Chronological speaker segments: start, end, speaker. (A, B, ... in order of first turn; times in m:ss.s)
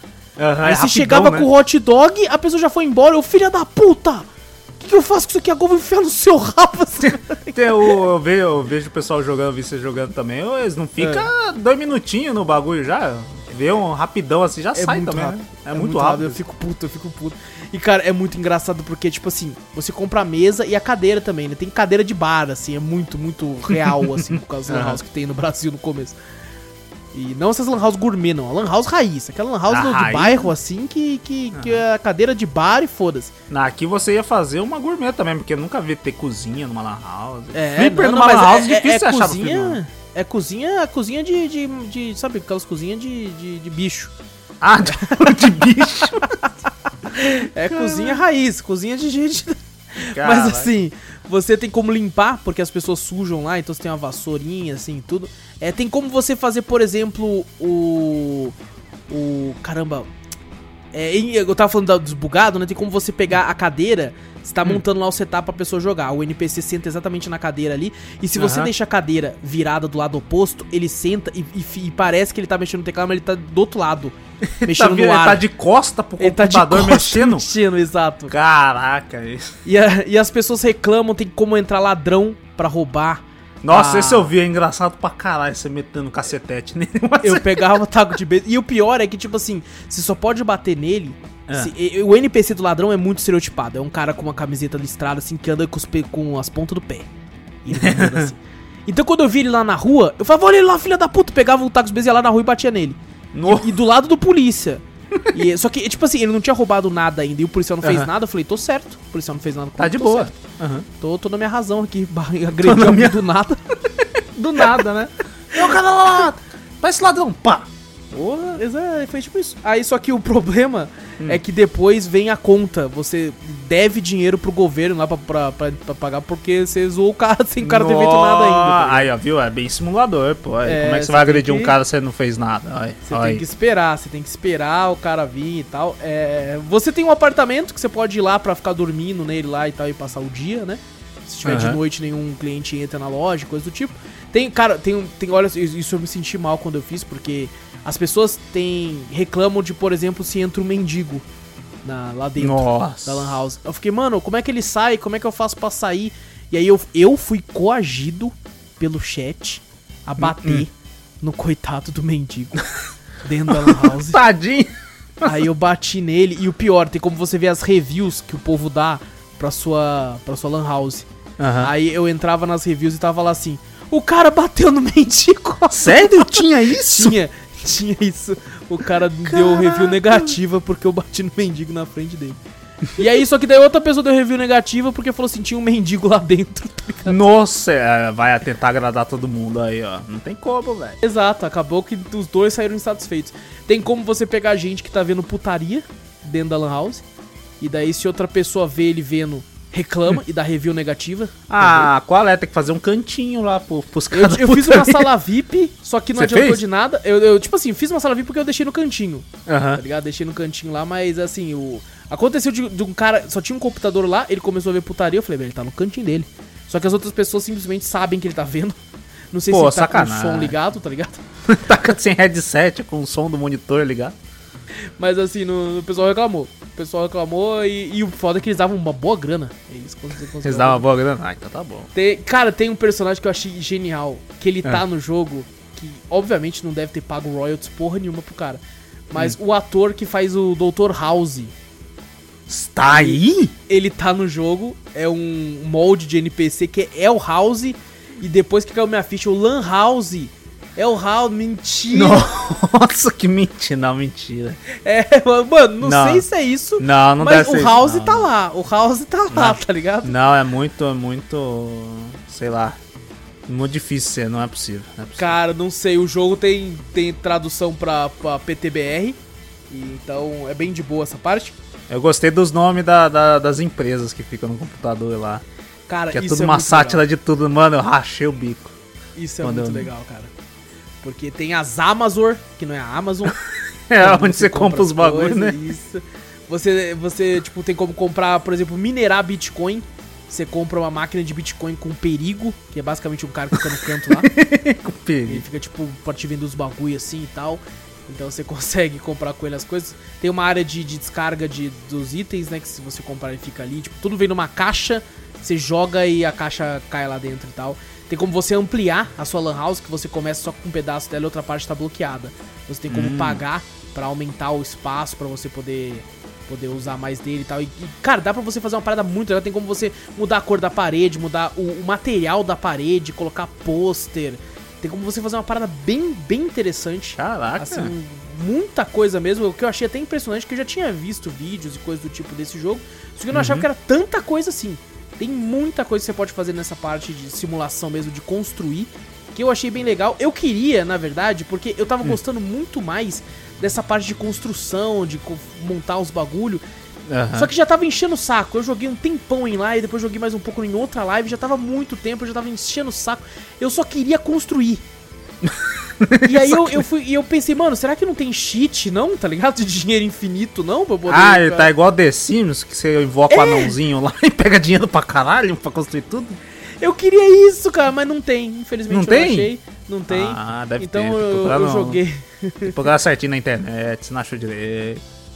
0:00.4-0:01.5 A
0:00.6-0:04.3 B
0:04.8-0:08.0 B
0:07.0-0:16.4 A
0:11.0-0:11.3 B
0:14.7-0:26.2 B
0:23.7-0:25.0 A
0:27.1-0:33.3 B
0:29.7-0:30.5 A
0:31.5-0:31.8 A
0:33.5-0:39.8 A
0:37.5-0:44.1 B
0:44.6-0:46.4 A
0:44.9-0:45.4 B
0:47.1-0:58.5 B
0:47.7-0:48.2 A
0:50.1-0:50.7 A
0:59.1-1:00.1 B
1:00.9-1:15.4 B
1:08.4-1:08.7 A
1:14.5-1:17.4 A
1:16.2-1:18.3 B
1:18.3-1:19.6 A
1:19.6-1:24.3 B
1:23.6-1:27.8 A
1:27.2-1:37.1 B
1:37.6-1:50.4 B
1:37.7-1:38.3 A
1:43.3-1:43.7 A
1:47.8-1:48.1 A
1:49.8-1:50.9 A
1:51.0-1:53.6 B
1:52.6-1:53.2 A
1:54.4-1:58.6 A
1:58.6-2:09.1 B
2:07.6-2:13.4 A
2:10.6-2:11.8 B
2:13.1-2:31.2 B
2:21.4-2:21.8 A
2:31.8-2:40.7 B
2:32.4-2:33.4 A
2:40.2-2:40.6 A
2:41.2-2:42.6 B
2:43.2-2:44.2 B
2:43.5-2:45.5 A
2:45.2-2:51.1 B
2:51.4-2:51.7 A
2:51.6-3:02.4 B
2:55.8-2:57.2 A
2:59.2-3:00.4 A
3:02.9-3:07.2 B
3:07.1-3:11.0 A
3:11.0-3:17.0 B
3:17.6-3:21.9 B
3:21.5-3:25.1 A
3:24.1-3:38.8 B
3:26.2-3:26.6 A
3:29.5-3:29.8 A
3:39.3-3:41.2 B
3:39.5-3:40.5 A
3:41.5-3:44.2 A
3:45.0-3:50.8 B
3:50.4-3:51.9 A
3:51.9-4:01.5 B
4:02.5-4:03.5 A
4:02.8-4:12.3 B
4:11.9-4:14.6 A
4:14.7-4:20.1 B
4:15.8-4:16.2 A
4:16.8-4:18.3 A
4:19.3-4:22.8 A
4:23.5-4:25.3 A
4:25.2-4:29.2 B
4:29.7-4:31.6 B
4:31.9-4:35.4 A
4:35.9-4:37.0 B
4:36.1-4:38.7 A
4:39.2-4:40.3 B
4:39.4-4:39.9 A
4:41.0-4:43.4 B
4:43.9-4:45.6 A
4:44.0-4:54.3 B
4:54.0-4:55.4 A
4:55.3-5:46.6 B
5:12.9-5:13.4 A
5:27.2-5:27.9 A
5:33.3-5:33.7 A
5:47.1-5:47.5 A
5:47.3-5:54.8 B
5:55.4-5:56.8 A
5:56.2-6:01.7 B
6:01.1-6:06.4 A
6:03.3-6:03.7 B
6:06.8-6:12.8 B
6:08.9-6:09.5 A
6:10.1-6:12.0 A
6:12.6-6:15.0 A